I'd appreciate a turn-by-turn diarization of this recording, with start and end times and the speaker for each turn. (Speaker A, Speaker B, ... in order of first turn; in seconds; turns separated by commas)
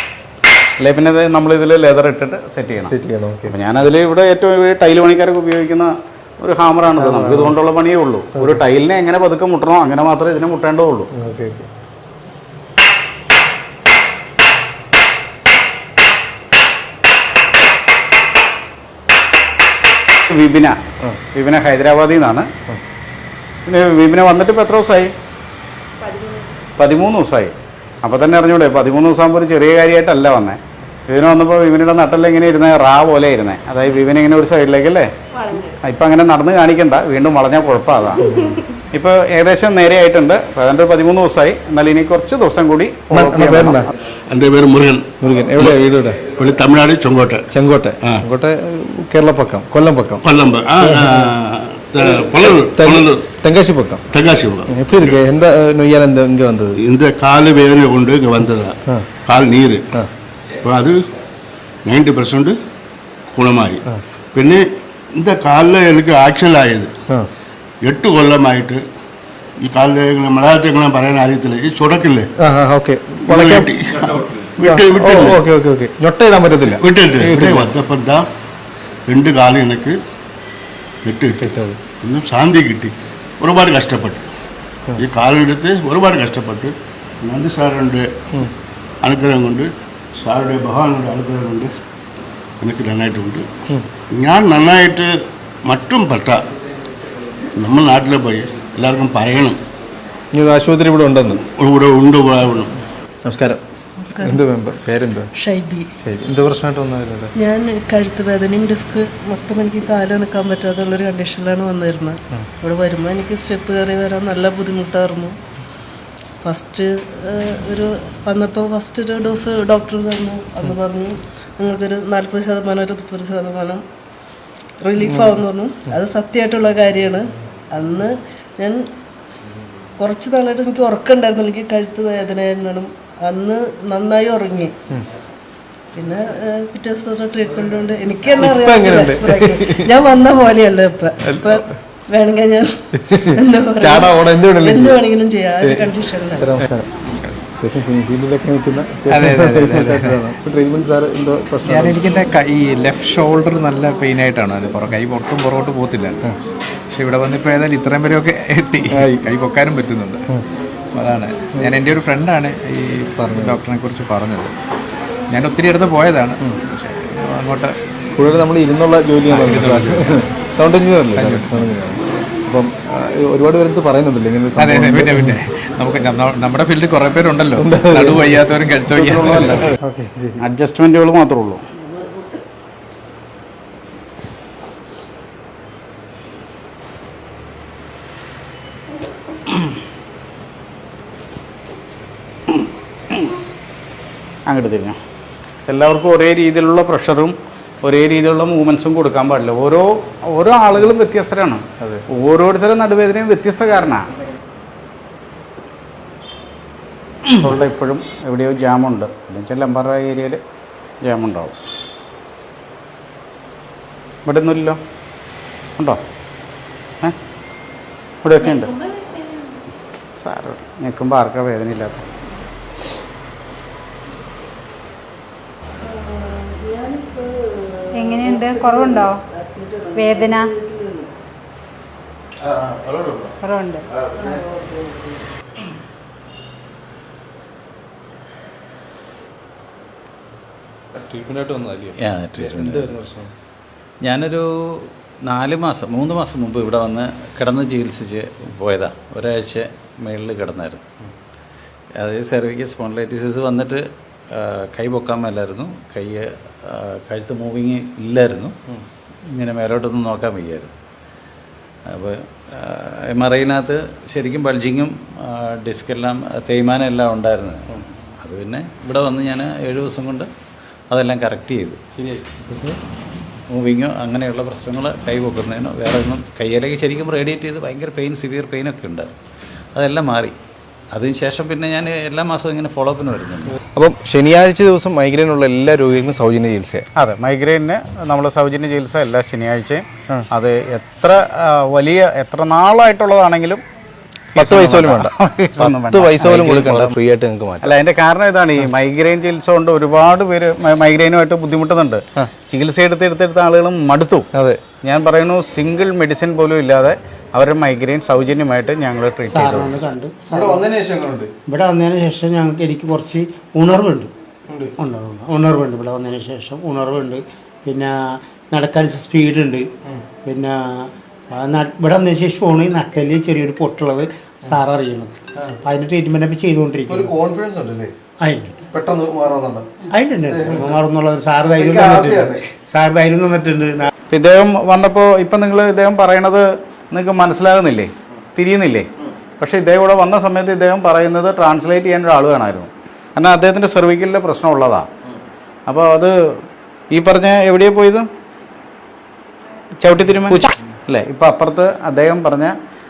Speaker A: 0.8-2.9, Speaker B: 2.8-3.5, Speaker A: 3.5-11.1, Speaker B: 6.9-7.5, Speaker B: 11.1-11.7, Speaker A: 20.3-20.8, Speaker A: 21.3-22.5, Speaker A: 23.7-25.1, Speaker A: 26.8-35.1, Speaker A: 35.8-43.9, Speaker B: 43.1-43.9, Speaker C: 44.3-45.1, Speaker B: 45.2-46.2, Speaker C: 46.3-47.5, Speaker B: 47.5-50.2, Speaker C: 50.2-53.2, Speaker B: 50.8-51.3, Speaker B: 52.5-54.0, Speaker C: 54.1-55.2, Speaker B: 54.7-56.8, Speaker C: 56.8-58.8, Speaker C: 59.3-59.9, Speaker C: 60.6-61.0, Speaker C: 61.9-62.5, Speaker C: 63.3-63.8, Speaker C: 64.3-64.6, Speaker C: 65.2-66.9, Speaker C: 67.8-68.8, Speaker C: 69.6-72.3, Speaker B: 72.4-73.7, Speaker C: 73.3-75.4, Speaker B: 74.6-77.7, Speaker C: 76.8-78.2, Speaker C: 79.1-80.0, Speaker C: 81.0-81.4, Speaker B: 81.4-81.8, Speaker C: 82.0-84.2, Speaker C: 85.0-88.1, Speaker C: 89.0-89.7, Speaker C: 90.2-91.7, Speaker C: 92.6-93.5, Speaker C: 94.1-95.1, Speaker C: 95.7-96.4, Speaker C: 97.6-99.6, Speaker B: 100.3-101.4, Speaker C: 101.5-102.7, Speaker B: 103.2-103.6, Speaker D: 104.0-104.4, Speaker B: 104.2-105.3, Speaker D: 105.4-105.9, Speaker B: 106.0-107.3, Speaker D: 107.4-115.4, Speaker D: 116.4-123.8, Speaker D: 124.8-128.8, Speaker B: 125.1-125.4, Speaker D: 130.0-134.7, Speaker D: 135.9-146.5, Speaker B: 138.4-139.9, Speaker B: 143.0-145.0, Speaker B: 145.6-145.9, Speaker B: 146.4-146.9, Speaker B: 147.6-152.0, Speaker E: 149.1-150.2, Speaker E: 151.7-156.2, Speaker E: 156.9-160.2, Speaker B: 158.9-159.2, Speaker E: 160.9-164.5, Speaker B: 163.2-163.6, Speaker E: 165.3-167.8, Speaker B: 168.2-175.3, Speaker E: 169.3-170.3, Speaker E: 171.1-171.7, Speaker E: 174.6-179.6, Speaker B: 177.6-180.4, Speaker A: 180.4-181.6, Speaker D: 181.9-182.2, Speaker A: 194.5-195.0, Speaker A: 195.7-204.1, Speaker A: 207.4-210.4, Speaker A: 211.0-211.6, Speaker A: 214.3-214.8, Speaker A: 218.2-218.7, Speaker A: 220.2-222.0, Speaker D: 225.8-231.1, Speaker F: 227.9-229.2, Speaker F: 230.0-230.5, Speaker F: 233.4-233.8, Speaker D: 234.2-235.2, Speaker B: 240.9-243.3, Speaker A: 242.0-242.9, Speaker A: 244.0-250.8, Speaker A: 252.0-258.5, Speaker A: 259.3-260.7, Speaker A: 261.9-267.6, Speaker A: 268.2-270.3, Speaker A: 270.9-271.8, Speaker B: 272.0-272.8, Speaker A: 273.5-279.1, Speaker A: 279.8-280.4, Speaker A: 280.9-283.5, Speaker B: 283.7-286.9, Speaker A: 287.0-293.6, Speaker A: 294.3-296.9, Speaker B: 294.4-297.7, Speaker A: 297.6-304.3, Speaker B: 304.3-304.6, Speaker A: 304.8-309.7, Speaker G: 309.3-310.6, Speaker B: 310.3-311.3, Speaker G: 311.5-314.1, Speaker B: 314.5-314.8, Speaker G: 314.8-318.0, Speaker G: 318.5-319.7, Speaker G: 320.2-327.2, Speaker B: 326.9-327.9, Speaker G: 328.2-328.6, Speaker B: 328.7-329.7, Speaker G: 329.9-333.9, Speaker B: 330.3-330.8, Speaker B: 331.6-332.4, Speaker A: 334.1-338.9, Speaker A: 339.4-344.9, Speaker A: 345.7-348.1, Speaker A: 349.8-352.5